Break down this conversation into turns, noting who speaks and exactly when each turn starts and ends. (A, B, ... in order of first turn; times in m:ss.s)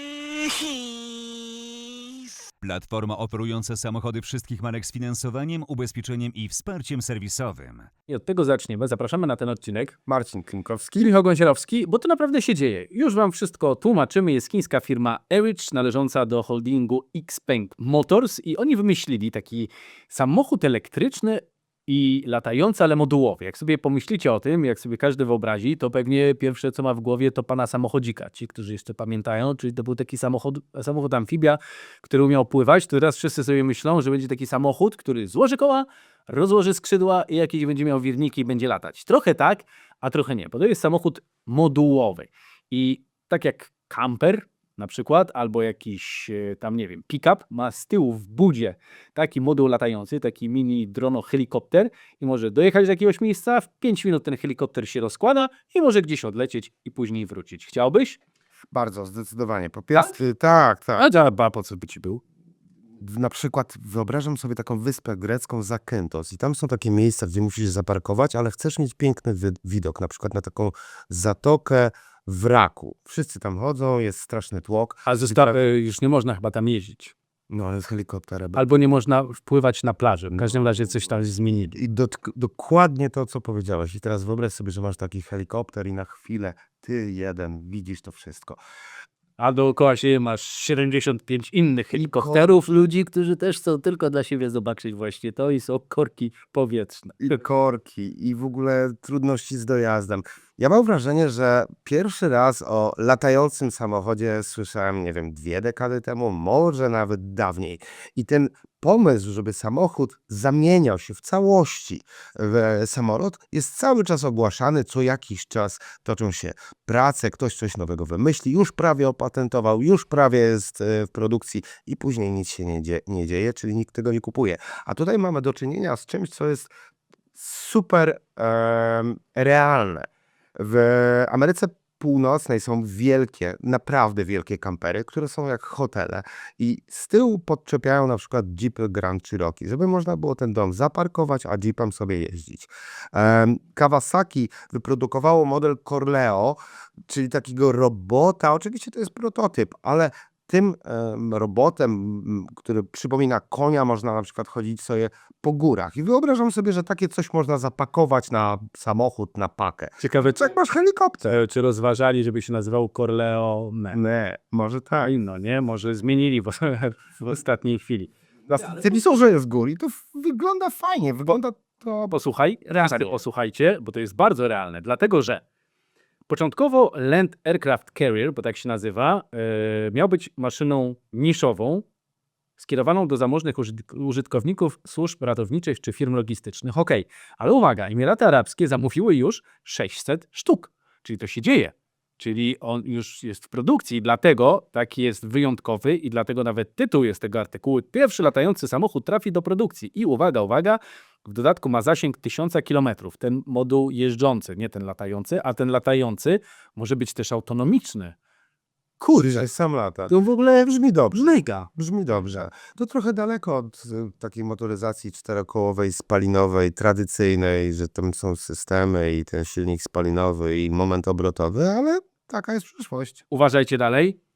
0:02.6-0:07.9 A
0:08.1-0:10.0 B
0:10.1-0:11.1 C
0:11.0-0:58.2 B
0:58.7-1:01.0 C
1:01.0-1:02.2 B
1:03.0-1:15.6 C
1:15.0-1:17.1 B
1:17.5-1:18.6 C
1:18.5-1:21.8 B
1:20.3-1:20.8 C
1:21.7-1:28.6 C
1:29.4-1:37.4 B
1:31.9-1:32.5 C
1:37.2-2:06.7 C
2:07.3-2:41.4 C
2:40.0-2:40.5 B
2:41.2-2:44.0 B
2:43.9-2:45.1 C
2:45.0-2:48.1 B
2:48.5-2:52.1 C
2:52.1-2:55.4 B
2:52.8-2:53.2 C
2:56.3-3:01.8 B
3:02.6-3:28.2 B
3:29.0-3:43.2 C
3:30.1-3:31.7 B
3:43.3-3:44.2 B